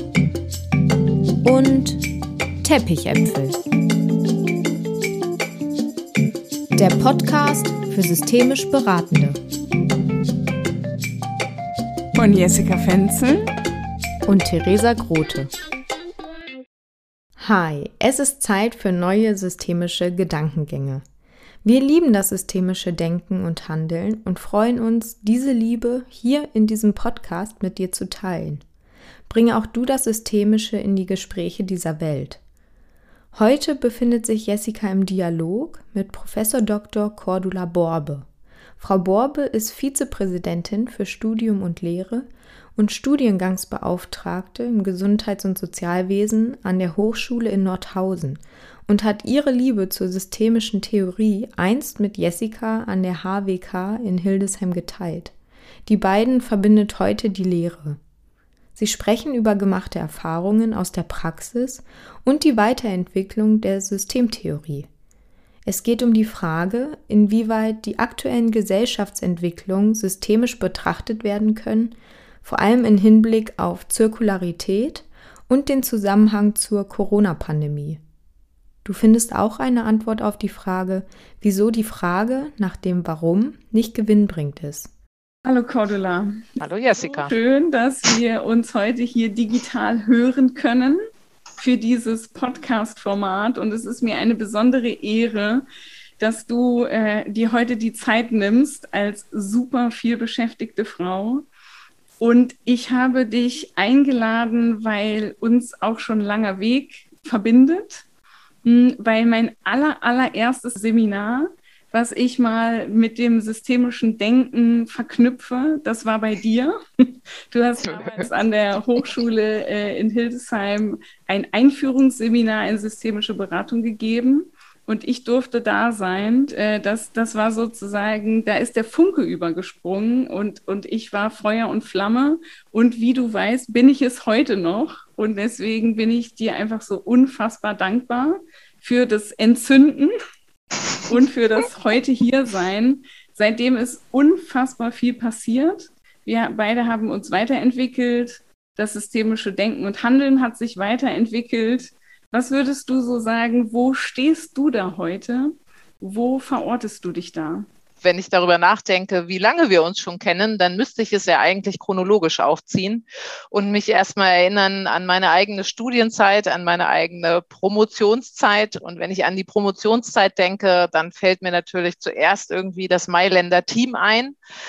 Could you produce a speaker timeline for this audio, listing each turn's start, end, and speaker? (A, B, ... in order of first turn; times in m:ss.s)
0:01.4-0:02.0 A
0:02.6-0:03.6 A
0:06.7-0:09.4 A
0:12.1-0:13.5 B
0:14.3-0:15.5 A
0:17.4-0:21.0 A
0:21.6-0:28.6 A
0:29.3-0:32.4 A
0:33.3-0:38.3 A
0:38.8-0:55.3 A
0:55.8-0:58.0 A
0:58.8-1:04.9 A
1:05.6-1:18.0 A
1:18.8-1:24.9 A
1:25.4-1:31.0 B
1:26.6-1:27.3 C
1:31.6-1:35.6 B
1:36.2-1:41.5 B
1:42.2-1:48.0 B
1:48.6-2:20.1 B
1:57.9-1:58.3 C
2:21.1-2:37.7 B
2:38.0-2:54.4 C